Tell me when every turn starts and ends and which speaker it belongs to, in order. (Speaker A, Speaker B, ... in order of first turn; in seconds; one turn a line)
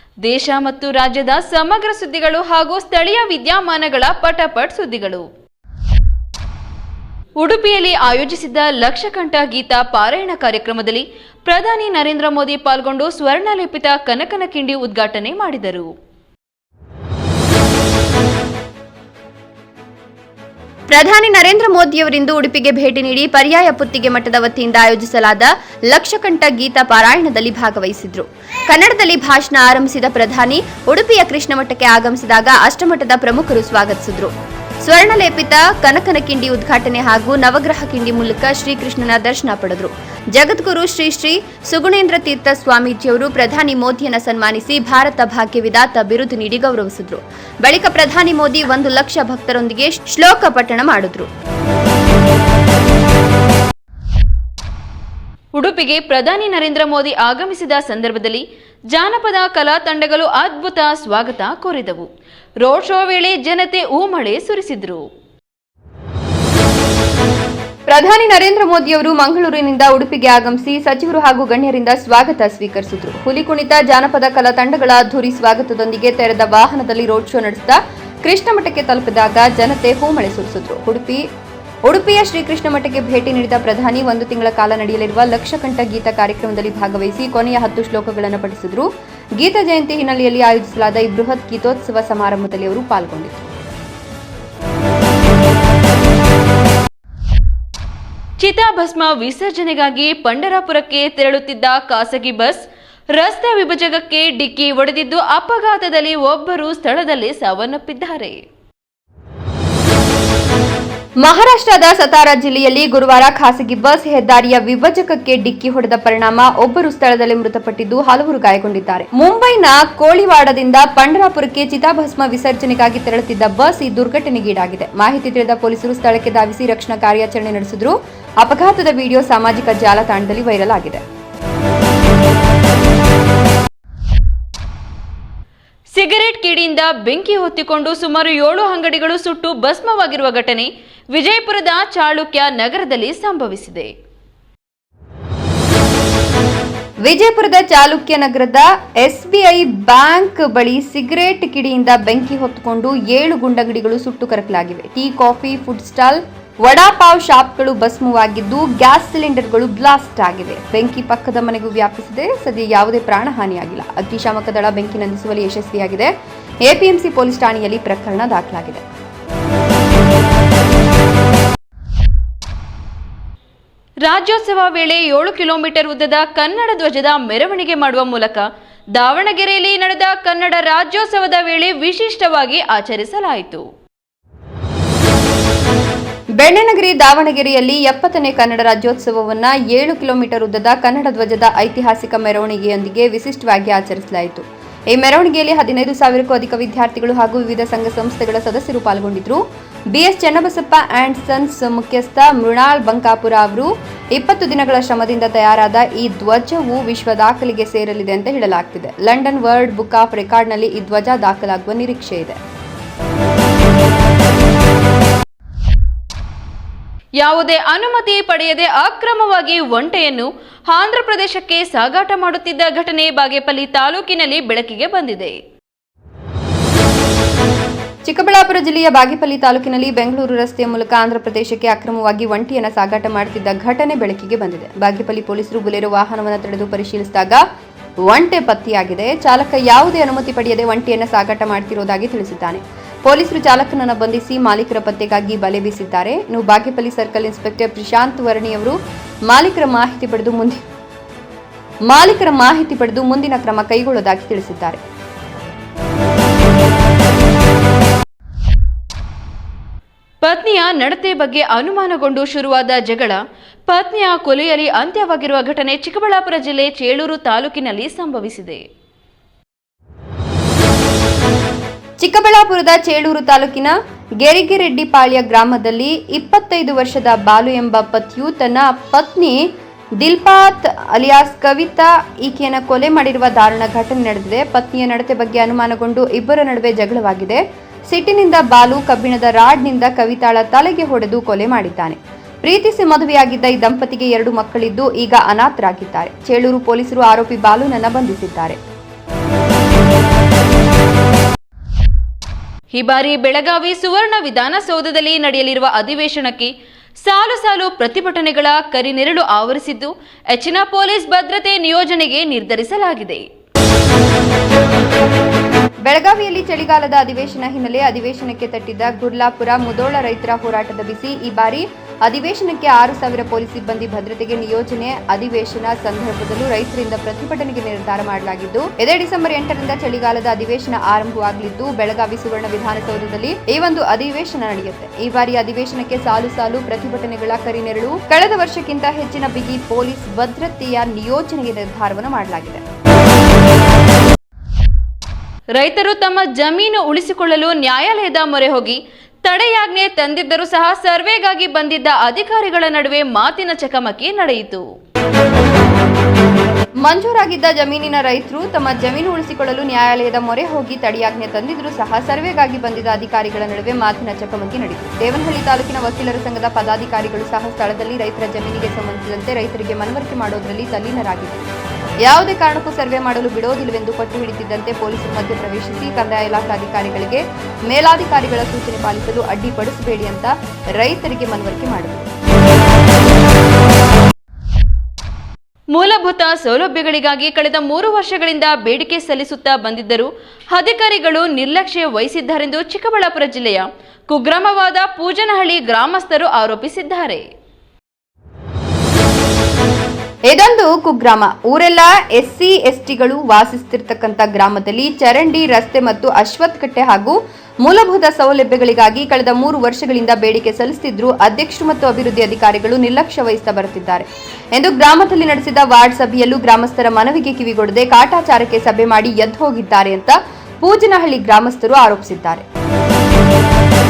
Speaker A: 0.2-5.3
Speaker A: 7.4-15.9
Speaker B: 20.9-51.3
Speaker A: 55.5-62.1
Speaker A: 62.6-65.0
Speaker B: 67.9-81.2
Speaker B: 81.9-88.9
Speaker B: 89.4-93.5
Speaker A: 98.4-102.6
Speaker A: 103.1-108.4
Speaker B: 111.2-131.0
Speaker A: 135.9-143.9
Speaker B: 147.0-166.1
Speaker B: 166.7-168.8
Speaker A: 174.0-183.7
Speaker B: 186.4-199.4
Speaker B: 199.9-212.4
Speaker A: 217.2-225.4
Speaker B: 228.1-237.4
Speaker B: 238.1-248.8
Speaker B: 249.3-250.6
Speaker B: 251.9-254.8
Speaker A: 260.2-268.6
Speaker B: 272.0-279.4
Speaker B: 280.0-298.6
Speaker A: 302.7-306.5
Speaker A: 307.0-313.2
Speaker B: 315.9-342.6
Speaker A: 345.6-354.6
Speaker B: 356.8-371.5
Speaker B: 372.1-382.1
Speaker A: 385.7-397.2
Speaker B: 400.3-422.4